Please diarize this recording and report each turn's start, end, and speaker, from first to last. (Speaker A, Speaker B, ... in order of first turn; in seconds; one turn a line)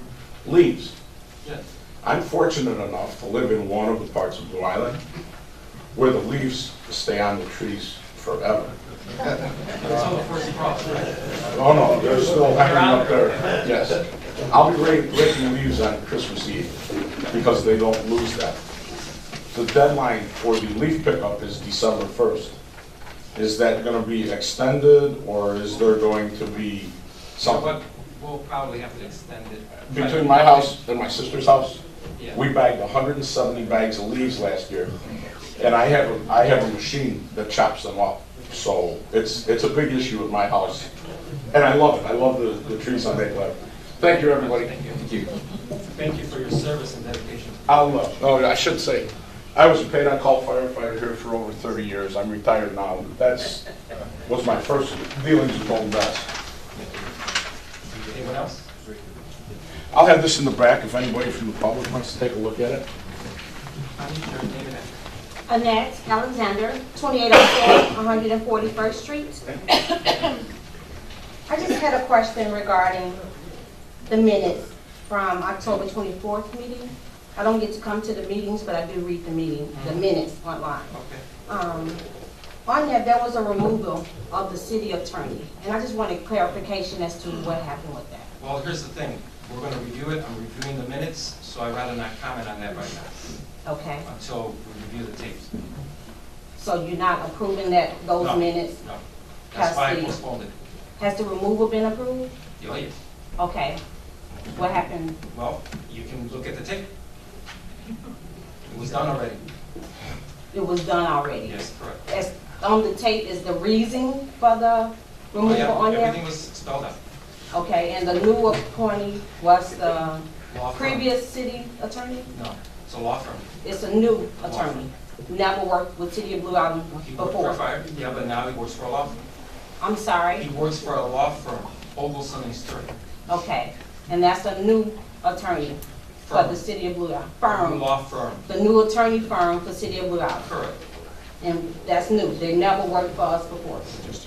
Speaker A: 0.4-0.9
Speaker A: 2.0-5.0
Speaker A: 5.9-8.7
Speaker B: 9.8-11.5
Speaker A: 11.5-16.7
Speaker B: 12.1-13.7
Speaker A: 17.3-18.6
Speaker A: 19.5-22.5
Speaker A: 23.3-27.8
Speaker B: 27.4-30.7
Speaker A: 29.9-31.8
Speaker A: 32.3-34.9
Speaker A: 35.6-40.9
Speaker B: 40.6-40.9
Speaker A: 41.5-45.3
Speaker B: 44.0-45.1
Speaker B: 45.9-47.9
Speaker A: 47.7-53.6
Speaker A: 54.2-56.2
Speaker B: 58.1-58.6
Speaker A: 59.9-62.9
Speaker B: 64.0-64.9
Speaker C: 65.5-70.4
Speaker C: 71.5-73.2
Speaker C: 74.0-80.9
Speaker B: 79.7-80.0
Speaker B: 80.9-81.2
Speaker C: 81.5-82.0
Speaker C: 82.7-88.3
Speaker B: 88.4-93.2
Speaker C: 93.6-94.0
Speaker B: 94.0-95.5
Speaker C: 96.6-98.7
Speaker B: 98.2-100.5
Speaker C: 99.6-100.1
Speaker C: 101.0-102.3
Speaker B: 102.6-102.9
Speaker C: 103.4-103.8
Speaker C: 104.5-105.2
Speaker B: 105.3-106.9
Speaker B: 108.7-109.4
Speaker C: 110.5-111.5
Speaker B: 111.4-112.0
Speaker C: 112.1-116.2
Speaker B: 115.4-117.0
Speaker C: 117.5-122.3
Speaker B: 120.5-121.1
Speaker B: 122.3-123.6
Speaker C: 123.6-127.6
Speaker B: 124.4-124.9
Speaker B: 127.0-129.2
Speaker C: 129.8-130.4
Speaker B: 130.4-132.9
Speaker C: 133.3-135.8
Speaker B: 136.2-136.6
Speaker C: 136.3-137.8
Speaker B: 137.4-138.4
Speaker C: 138.5-140.4
Speaker B: 140.4-140.8
Speaker C: 141.4-143.8